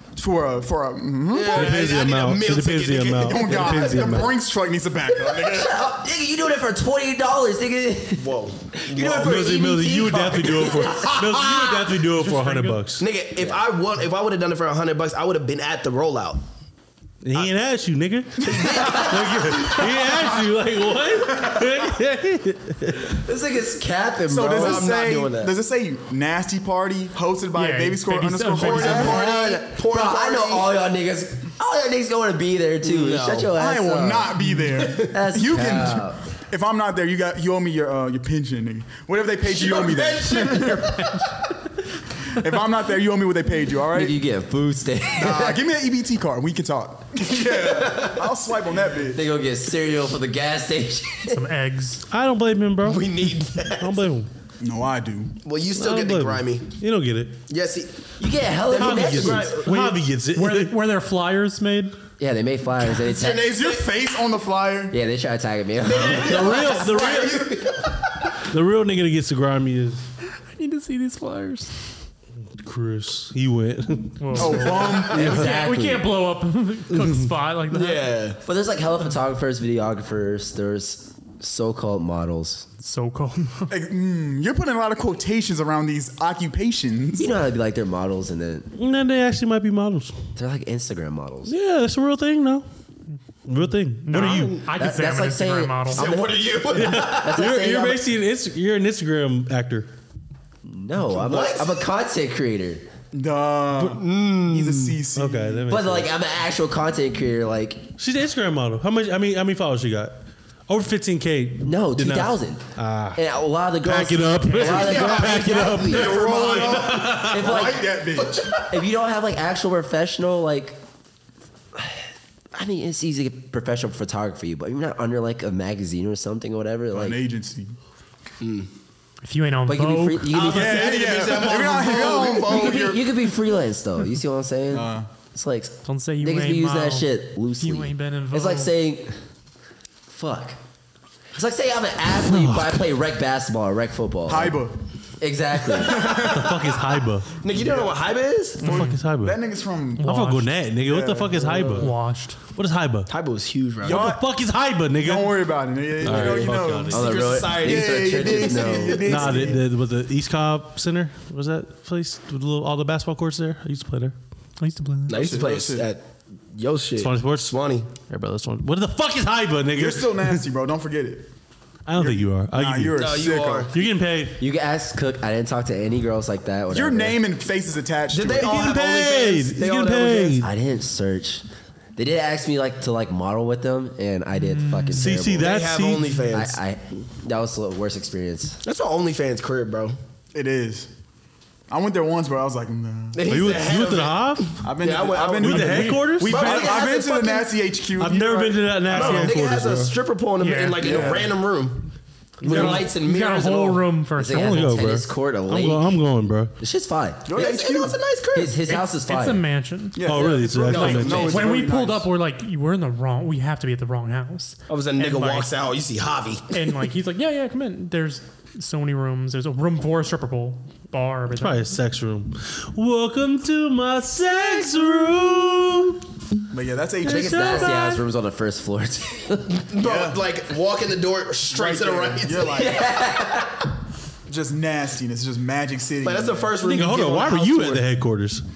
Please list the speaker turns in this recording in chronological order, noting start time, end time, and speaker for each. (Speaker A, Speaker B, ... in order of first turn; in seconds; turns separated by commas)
Speaker A: 0.2-1.8, Speaker B: 1.3-4.2, Speaker C: 1.5-4.3, Speaker A: 3.2-5.7, Speaker D: 5.1-11.4, Speaker B: 8.2-9.3, Speaker C: 9.1-13.1, Speaker E: 12.2-12.8, Speaker B: 13.0-16.4, Speaker D: 13.4-13.6, Speaker C: 17.2-23.2, Speaker B: 18.4-19.1, Speaker A: 18.5-19.1, Speaker D: 23.1-25.1, Speaker A: 24.3-29.3, Speaker B: 24.5-25.5, Speaker E: 27.6-29.2, Speaker B: 28.5-30.7, Speaker D: 28.8-36.2, Speaker B: 32.8-33.5, Speaker A: 33.5-41.0, Speaker B: 39.5-41.1, Speaker E: 40.9-41.2, Speaker A: 42.3-44.2, Speaker D: 43.9-45.6, Speaker A: 45.2-49.2, Speaker B: 47.8-48.2, Speaker D: 49.1-51.4, Speaker E: 51.3-52.0, Speaker C: 52.1-54.3, Speaker B: 52.8-54.0, Speaker A: 54.6-55.4, Speaker B: 55.4-56.7, Speaker C: 55.8-57.4, Speaker B: 57.5-57.9, Speaker D: 58.2-59.6, Speaker B: 58.7-59.9, Speaker C: 58.8-60.8, Speaker E: 59.7-62.0, Speaker D: 62.2-63.6, Speaker B: 63.1-63.8, Speaker A: 63.2-65.0, Speaker D: 64.9-66.8, Speaker B: 65.9-68.1, Speaker C: 66.0-67.6, Speaker C: 68.4-70.0, Speaker E: 70.5-71.9, Speaker C: 72.6-75.3, Speaker E: 74.2-78.2, Speaker A: 74.4-75.4, Speaker D: 75.1-76.1, Speaker C: 76.9-77.2, Speaker B: 77.7-78.4, Speaker D: 78.5-82.7, Speaker E: 82.8-83.7, Speaker A: 83.7-87.4, Speaker D: 87.2-88.7, Speaker C: 88.8-90.2, Speaker D: 90.4-91.5, Speaker C: 91.5-92.7, Speaker C: 93.5-94.6, Speaker E: 94.0-96.1, Speaker B: 94.2-94.7, Speaker D: 94.8-98.0, Speaker B: 95.9-97.4, Speaker C: 96.7-99.9, Speaker D: 100.7-102.9, Speaker B: 101.2-101.8, Speaker A: 103.1-105.7, Speaker B: 103.9-105.0, Speaker C: 105.1-106.1, Speaker D: 105.7-107.9, Speaker C: 108.0-113.2, Speaker D: 111.6-116.2, Speaker C: 113.8-117.6, Speaker B: 114.6-117.0, Speaker A: 115.9-118.7, Speaker D: 117.2-118.0, Speaker B: 118.2-118.5, Speaker D: 118.7-120.8, Speaker D: 121.7-127.2, Speaker A: 126.9-127.8, Speaker B: 128.4-128.7, Speaker E: 129.2-130.5, Speaker D: 129.7-131.0, Speaker B: 130.3-132.8, Speaker A: 130.4-133.1, Speaker D: 132.2-139.2, Speaker A: 134.7-135.1, Speaker E: 135.8-138.7, Speaker D: 140.1-140.6, Speaker D: 141.3-144.6, Speaker C: 142.3-142.9, Speaker A: 144.3-144.8, Speaker D: 145.2-146.3, Speaker A: 145.9-146.4, Speaker C: 146.1-147.4, Speaker B: 147.4-148.8, Speaker A: 147.5-148.1, Speaker E: 148.6-149.0, Speaker C: 148.6-149.4, Speaker A: 148.6-150.1, Speaker E: 150.0-150.5, Speaker C: 150.0-151.9, Speaker A: 150.8-151.8, Speaker E: 151.8-152.4, Speaker C: 152.5-153.1, Speaker B: 153.1-154.1, Speaker A: 153.8-154.2, Speaker C: 153.8-157.3, Speaker A: 155.0-159.6, Speaker B: 156.1-159.0, Speaker D: 156.9-159.6, Speaker C: 159.1-164.2, Speaker E: 164.6-165.4, Speaker B: 165.1-166.0, Speaker A: 165.1-165.9, Speaker B: 166.5-167.9, Speaker C: 167.0-170.4, Speaker A: 169.8-171.3, Speaker C: 171.9-173.2, Speaker A: 172.0-173.7, Speaker B: 172.9-173.7, Speaker C: 173.7-174.4, Speaker D: 174.4-177.2, Speaker A: 176.7-178.8, Speaker B: 178.1-180.4, Speaker C: 178.4-180.5, Speaker D: 180.4-181.4, Speaker D: 182.0-185.5, Speaker E: 184.3-185.1, Speaker C: 184.9-186.4, Speaker B: 185.4-186.6, Speaker D: 186.3-188.6, Speaker B: 188.6-190.0, Speaker A: 190.3-190.9, Speaker A: 191.7-193.3, Speaker B: 193.1-197.5, Speaker C: 193.3-194.6, Speaker A: 194.6-199.3, Speaker C: 195.4-196.8, Speaker E: 195.5-196.2, Speaker C: 198.0-200.0, Speaker B: 198.9-201.9, Speaker E: 200.4-201.1, Speaker A: 200.8-201.4, Speaker B: 202.4-203.9, Speaker C: 202.4-202.9, Speaker E: 202.4-204.9, Speaker D: 204.2-205.9, Speaker C: 204.3-206.5, Speaker D: 206.6-207.3, Speaker A: 207.3-208.0, Speaker B: 207.3-208.8, Speaker D: 208.3-209.4, Speaker E: 209.0-210.0, Speaker A: 209.9-212.1, Speaker C: 210.0-211.5, Speaker B: 210.7-211.4, Speaker E: 210.7-215.5, Speaker B: 214.7-216.5, Speaker E: 216.5-221.7, Speaker C: 221.3-226.0, Speaker A: 226.5-227.8, Speaker C: 227.0-228.0, Speaker D: 227.0-229.6, Speaker B: 229.6-232.5, Speaker A: 229.8-230.2, Speaker A: 231.5-232.9, Speaker D: 232.4-233.7, Speaker A: 234.3-236.6, Speaker B: 236.0-237.8, Speaker C: 236.6-238.4